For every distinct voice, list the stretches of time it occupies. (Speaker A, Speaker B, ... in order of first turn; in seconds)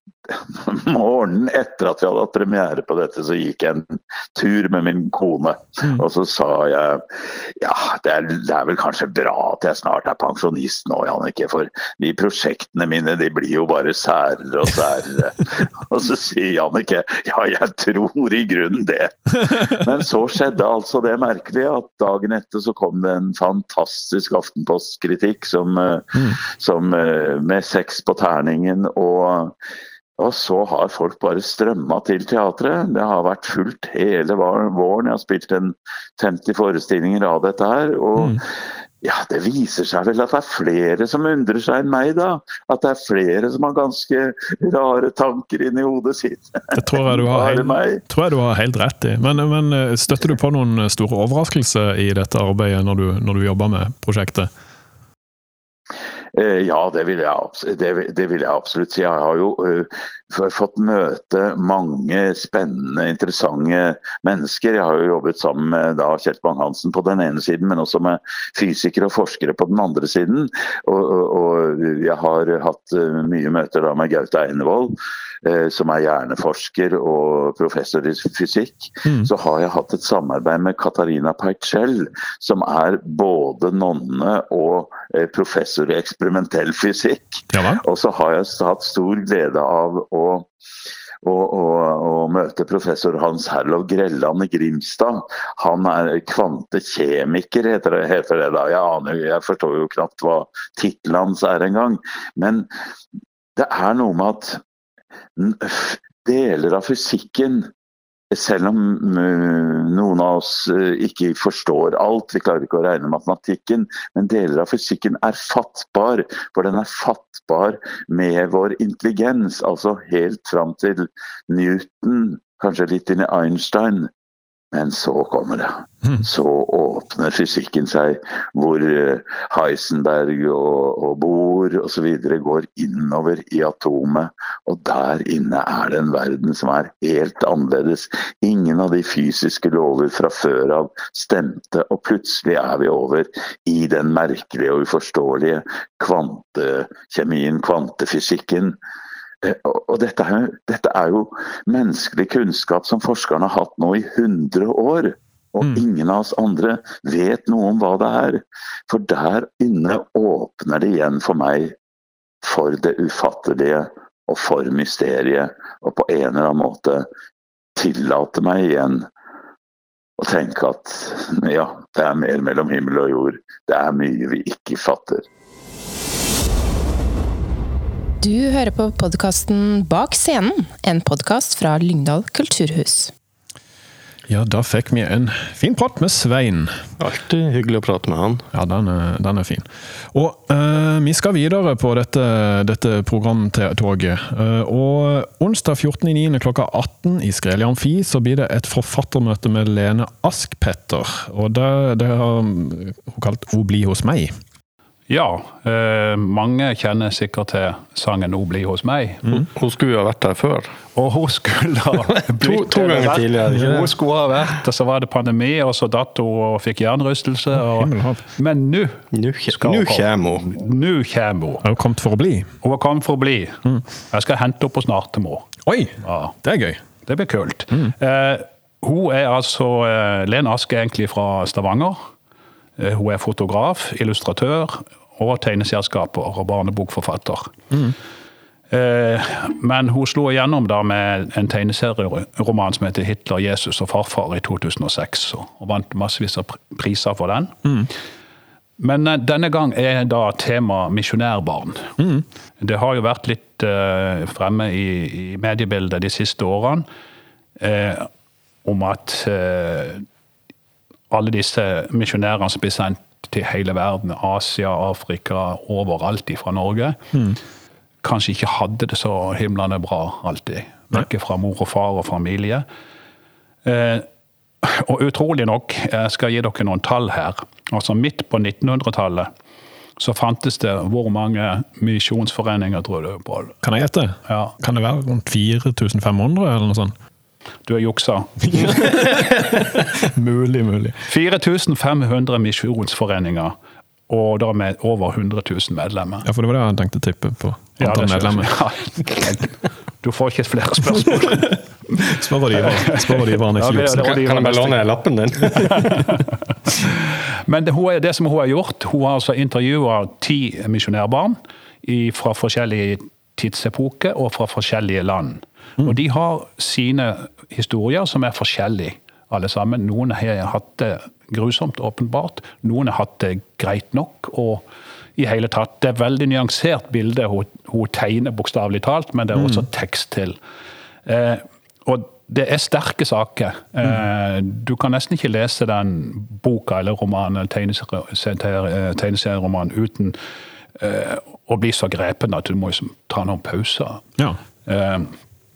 Speaker A: 0.3-29.5, 30.2-38.4, 39.0-48.0, 56.3-90.5, 91.2-102.7, 103.5-104.6, 105.3-107.7, 108.3-124.1, 124.7-148.8, 149.4-161.7, 162.4-167.1, 167.8-169.1, 170.2-175.2
Speaker B: 46.7-54.5, 87.5-87.8, 184.3-186.7, 188.5-204.3, 217.5-218.2, 221.6-222.5, 225.7-226.8, 252.0-252.2, 267.1-267.4, 283.6-286.9, 288.5-291.0, 296.2-298.5, 301.1-304.2, 329.3-329.6
Speaker C: 178.2-183.1
Speaker D: 187.0-188.4, 209.3-210.7, 212.3-213.9, 219.1-220.5, 304.0-306.0
Speaker E: 205.1-209.2, 210.9-221.7, 222.6-225.5, 226.0-226.3, 227.0-232.0, 232.8-237.6, 238.7-247.6, 248.8-252.0, 252.6-256.9, 257.6-258.1, 258.6-260.0, 261.1-267.0, 268.0-272.6, 273.6-274.1, 274.6-279.3, 280.0-283.6, 284.3-284.5, 287.6-288.9, 291.1-293.5, 294.1-296.3, 297.8-301.5, 302.6-304.8, 305.7-306.1, 307.5-330.4, 331.1-340.2, 340.8-344.0, 344.6-345.1